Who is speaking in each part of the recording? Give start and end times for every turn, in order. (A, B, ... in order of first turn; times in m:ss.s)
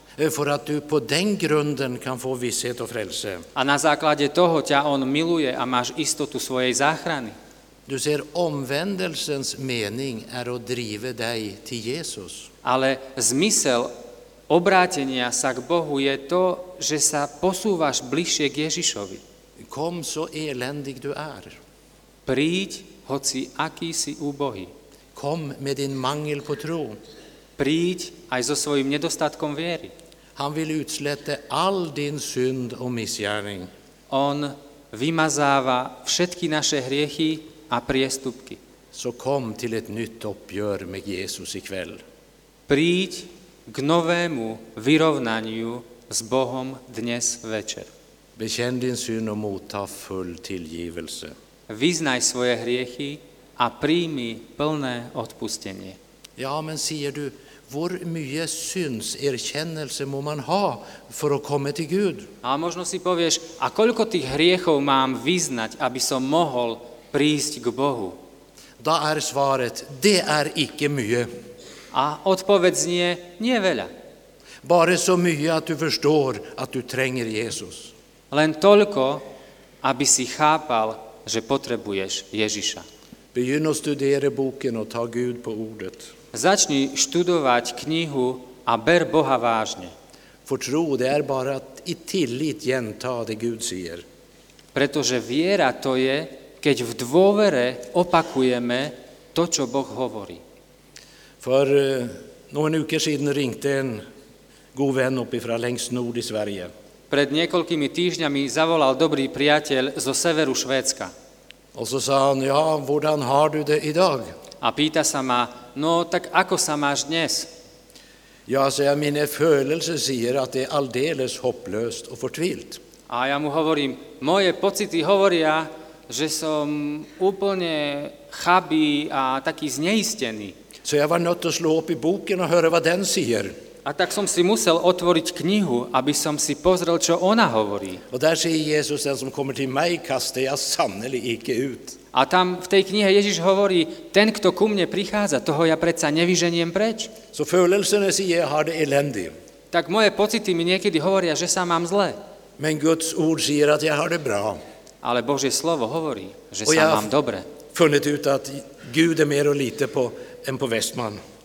0:00.2-0:03.5 A
0:03.6-0:07.4 B
0:07.9-0:12.5 A
0:12.6-0:13.9 B
0:14.5-0:19.2 B
0:19.6-0:21.6 A
0:22.3-0:24.7 B
0:25.2-0:27.0 A
0:27.6-0:29.9 B
0:30.4-0:33.7 A
0:34.1-0:38.6 B
0:38.9-0:42.0 A
0:42.7-0:47.9 B
0:48.4-0:51.3 A
0:51.7-0:56.0 B
0:56.4-1:02.3 A
1:02.4-1:08.2 B
1:08.8-1:11.3 A
1:11.9-1:13.9 B
1:14.6-1:17.9 A
1:18.3-1:19.2 B
1:19.8-1:22.8 B
1:23.3-1:26.1 A
1:26.3-1:29.9 B
1:30.5-1:34.0 A
1:34.7-1:40.4 B
1:41.4-1:44.0 A
1:44.8-1:46.7 A
1:47.1-1:51.1 B
1:51.7-1:54.3 A
1:54.6-1:57.5 B
1:58.5-2:02.8 A
2:03.1-2:10.6 B
2:10.8-2:13.6 A
2:13.8-2:18.0 B
2:18.1-2:22.0 A
2:22.1-2:27.1 B
2:27.3-2:29.3 A
2:29.7-2:32.2 B
2:32.6-2:34.6 A
2:35.0-2:37.5 B
2:36.6-2:37.1 A
2:37.7-2:41.2 A